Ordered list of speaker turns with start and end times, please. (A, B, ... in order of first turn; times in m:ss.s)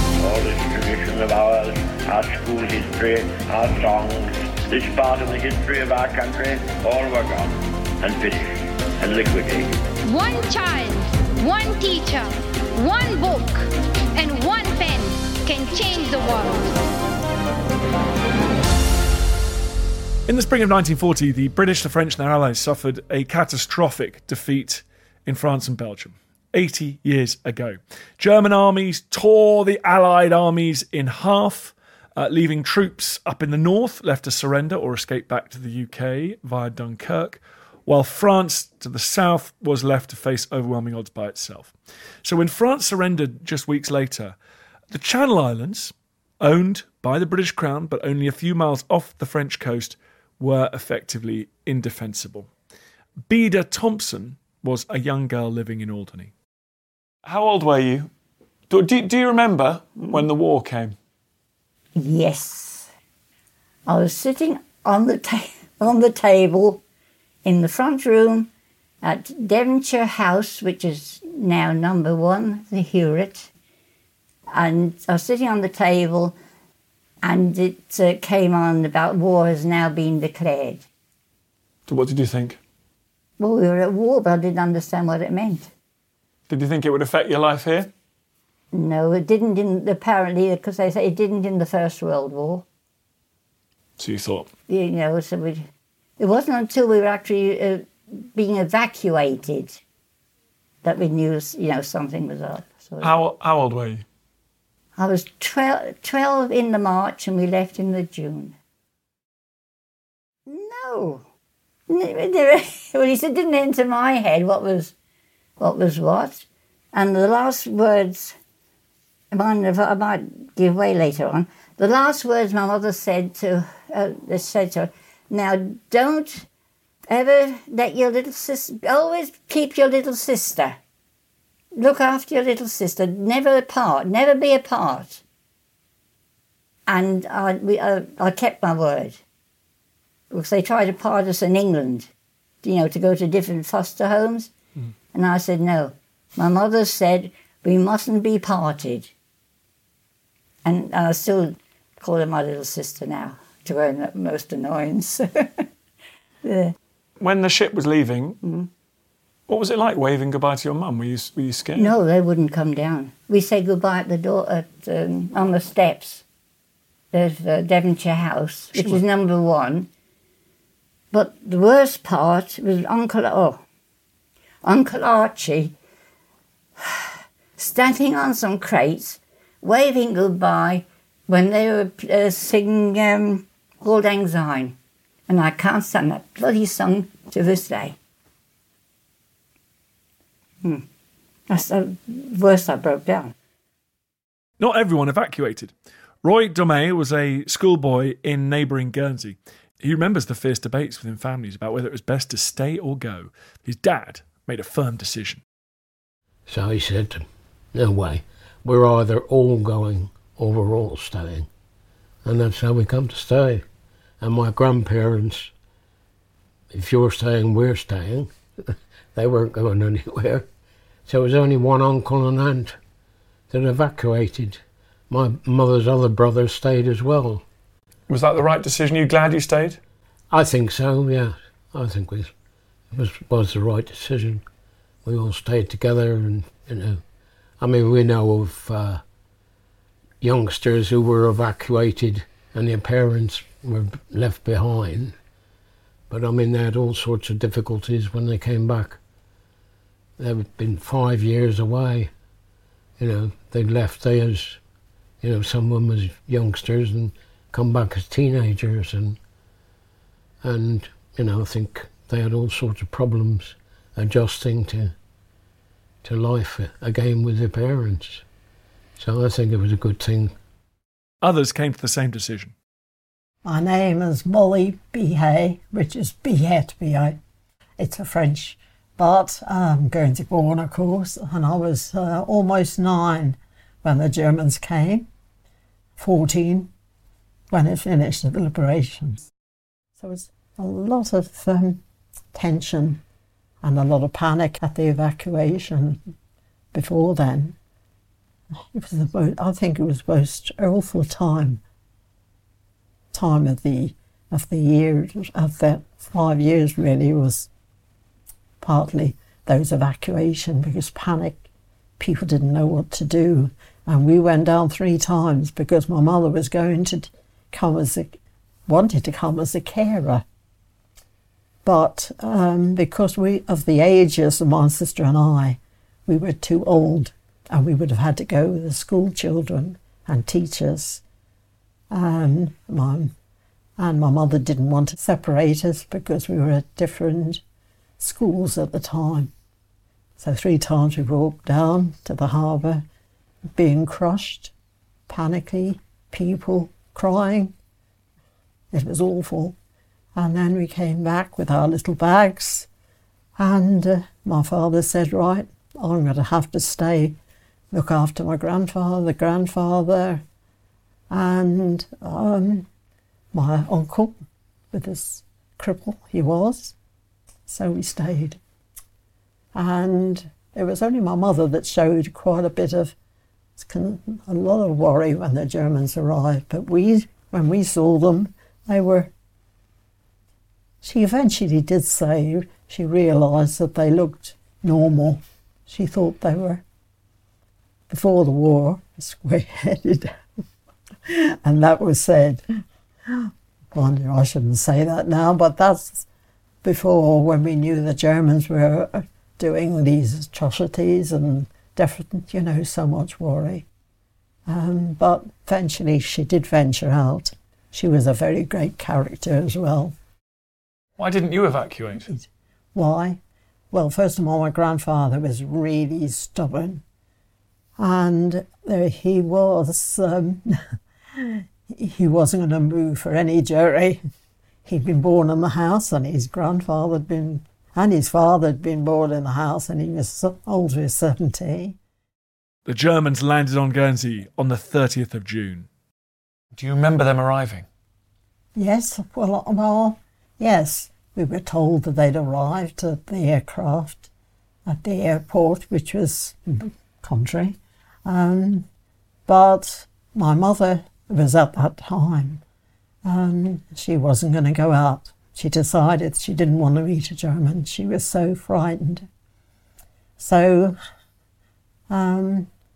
0:00.2-0:09.7 A
0:10.0-0:16.7 B
0:20.3-0:41.7 C
0:42.2-0:44.4 C
0:44.9-0:52.5 C
0:53.3-0:56.3 C
0:57.2-0:58.1 C
0:58.7-1:01.0 C
1:00.0-1:00.3 D
1:02.0-1:02.9 D
1:03.8-1:06.8 D
1:07.4-1:08.5 D
1:09.0-1:13.5 D
1:14.5-1:16.4 D
1:17.2-1:20.9 D
1:21.9-1:22.6 C
1:23.4-1:25.7 D
1:26.5-1:27.9 C
1:28.7-1:32.6 D
1:34.0-1:34.5 C
1:34.7-1:35.7 D
1:36.2-1:39.8 D
1:40.8-1:43.1 D
1:43.0-1:44.0 C
1:45.0-1:48.6 D
1:50.4-1:51.2 D
1:51.9-1:54.9 D
1:55.6-1:58.4 D
1:59.3-2:06.5 D
2:07.1-2:10.8 D
2:11.8-2:15.2 D
2:16.9-2:19.2 D
2:20.3-2:22.1 D
2:22.6-2:24.5 D
2:25.1-2:29.1 D
2:30.6-2:35.6 D
2:36.4-2:36.7 D
2:37.2-2:38.4 C
2:38.4-2:38.7 D
2:39.5-2:41.9 C
2:41.8-2:46.2 D
2:47.1-2:49.9 D
2:51.1-2:53.6 D
2:54.6-2:55.7 D
2:56.8-3:04.8 D
3:05.3-3:08.0 D
3:11.5-3:13.3 D
3:14.6-3:25.4 C
3:26.5-3:31.5 E
3:32.2-3:33.6 E
3:34.2-3:35.5 E
3:36.7-3:38.3 E
3:39.1-3:40.4 E
3:41.0-3:42.8 E
3:43.5-3:47.4 E
3:48.1-3:49.8 C
3:50.3-3:52.3 E
3:52.9-3:54.4 E
3:55.0-3:57.0 E
3:57.6-3:59.0 E
4:00.2-4:05.2 E
4:06.1-4:09.0 E
4:10.2-4:12.1 E
4:13.0-4:14.6 E
4:15.2-4:19.2 E
4:20.4-4:24.9 E
4:26.0-4:28.2 E
4:29.0-4:30.3 E
4:31.2-4:32.5 C
4:33.4-4:37.2 F
4:37.8-4:45.1 F
4:46.0-4:46.7 F
4:47.5-4:49.3 F
4:50.0-4:51.8 F
4:52.3-4:53.0 F
4:53.6-4:56.1 F
4:56.7-4:57.6 F
4:58.7-5:01.6 F
5:03.1-5:07.5 F
5:08.6-5:11.4 F
5:12.0-5:20.2 F
5:21.6-5:31.0 F
5:31.9-5:33.1 F
5:33.8-5:37.4 F
5:38.0-5:39.3 F
5:40.2-5:42.8 F
5:43.5-5:44.5 F
5:45.1-5:47.5 F
5:48.7-5:49.6 F
5:50.1-5:52.7 F
5:53.4-5:57.2 F
5:57.7-6:00.2 F
6:01.1-6:02.7 F
6:03.3-6:04.2 F
6:04.7-6:06.7 F
6:07.5-6:08.4 F
6:09.5-6:12.9 F
6:13.6-6:19.1 F
6:20.8-6:26.6 F
6:27.9-6:30.1 F
6:31.1-6:32.4 F
6:33.1-6:36.0 F
6:36.6-6:43.6 F
6:44.5-6:50.0 F
6:51.0-6:52.1 C
6:52.1-6:53.2 F
6:53.7-6:56.8 F
6:57.8-7:04.0 F
7:04.6-7:11.8 F
7:12.6-7:15.7 C
7:16.5-7:17.6 C
7:18.5-7:24.1 F
7:24.7-7:28.7 F
7:29.3-7:32.4 F
7:33.0-7:39.1 F
7:40.2-7:40.8 F
7:41.9-7:42.5 F